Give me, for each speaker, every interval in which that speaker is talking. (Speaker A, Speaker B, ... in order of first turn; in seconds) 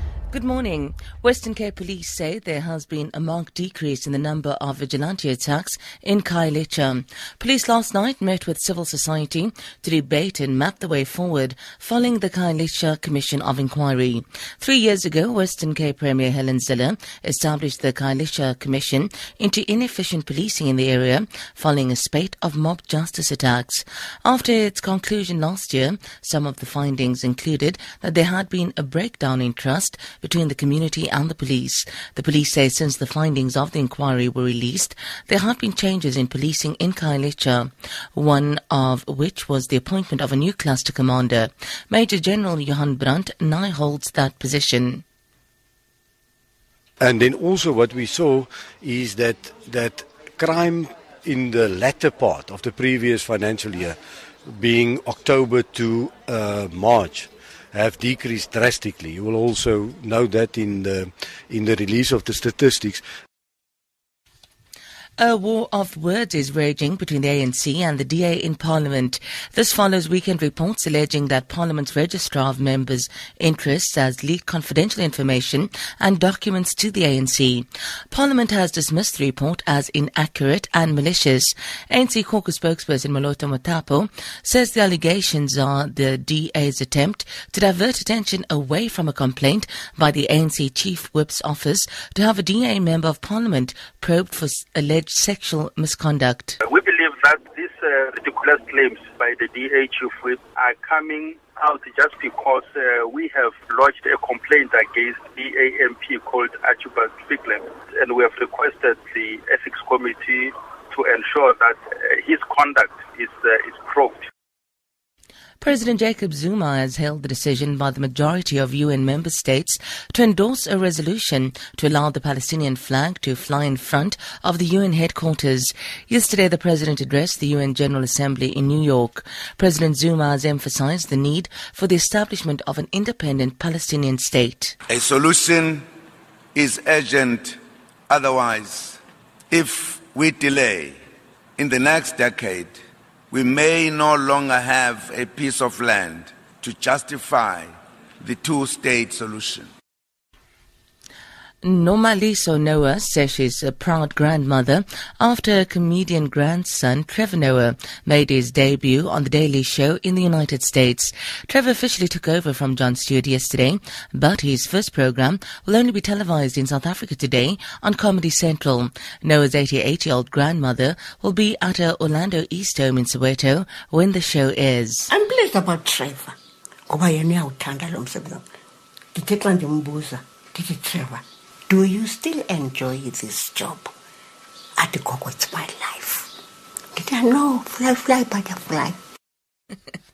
Speaker A: 0.3-45.0, 65.2-96.6, 115.6-134.8, 151.6-175.1
Speaker B: 47.0-63.0
Speaker C: 96.6-114.2
Speaker D: 134.9-135.8, 136.6-137.6, 138.1-139.0, 139.5-141.0, 141.6-142.8, 143.3-149.7
Speaker E: 175.1-176.4, 176.9-178.4, 179.2-183.9, 184.8-186.3, 186.9-189.0